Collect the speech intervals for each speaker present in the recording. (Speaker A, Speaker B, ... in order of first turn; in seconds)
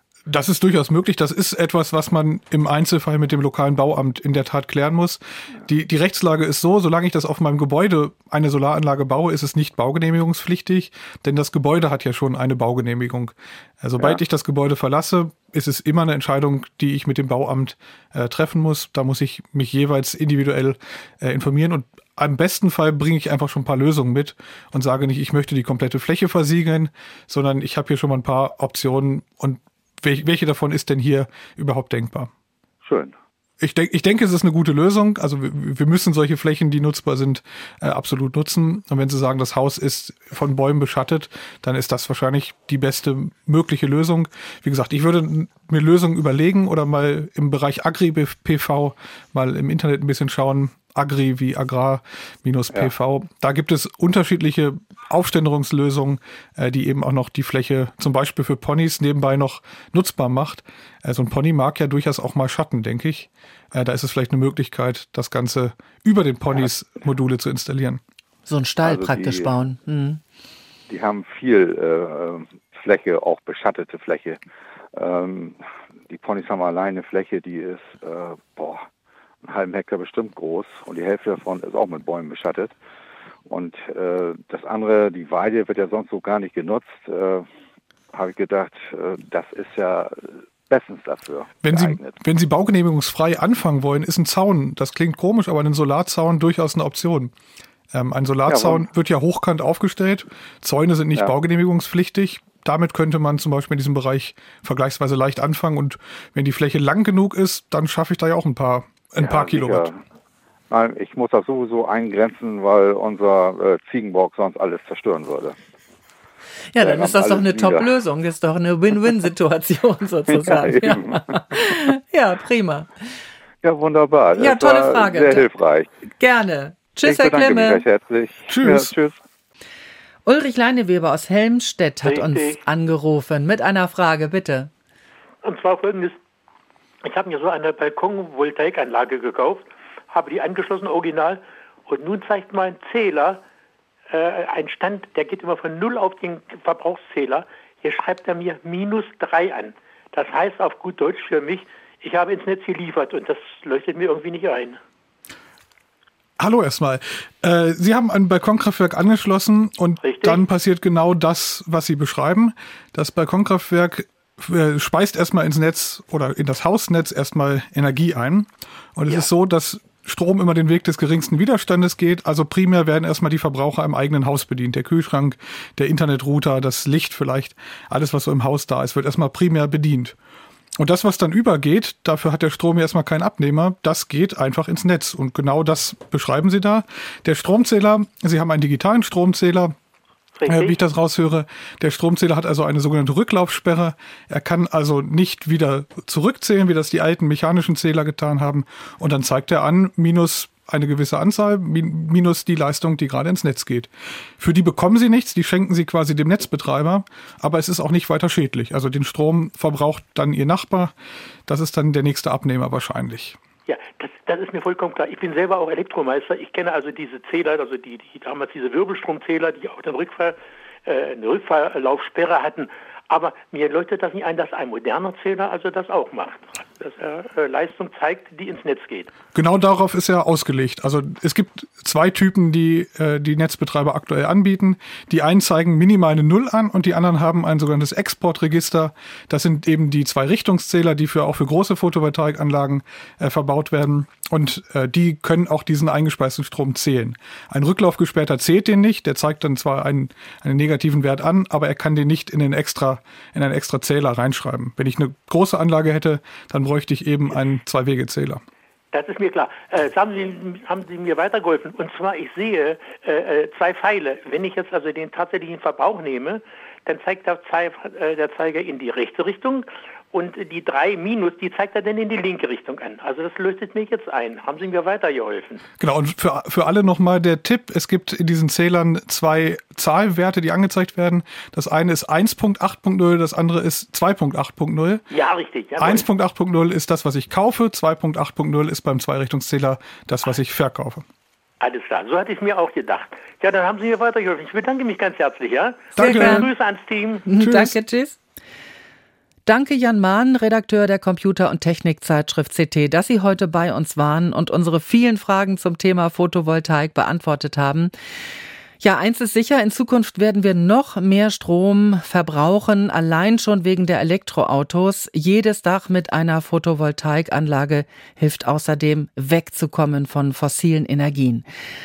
Speaker A: 0.3-32.3, 33.6-68.0, 91.6-97.3, 97.9-109.9, 128.5-128.9, 156.4-180.1, 180.8-189.7, 190.4-210.9, 211.5-213.4, 229.3-258.4, 275.8-285.1, 285.8-291.0, 295.9-296.5, 297.4-297.8
Speaker B: 32.8-33.1, 68.8-69.5, 70.9-74.4, 74.9-78.8, 79.4-82.7, 83.5-87.5, 88.1-92.2, 98.5-98.8, 109.2-110.0, 110.7-115.5, 116.8-117.9, 120.3-121.4, 123.6-125.9, 127.0-129.2
Speaker C: 68.5-70.2, 116.7-123.1, 124.3-125.5, 126.2-127.8, 130.2-134.7, 296.0-296.5, 297.2-298.2, 299.4-307.9, 308.8-321.4
Speaker D: 132.0-132.6, 135.4-136.2, 137.0-143.4, 144.1-154.8, 160.0-160.4, 190.4-190.8, 213.7-229.1, 258.9-275.6, 285.1-286.1, 291.6-297.2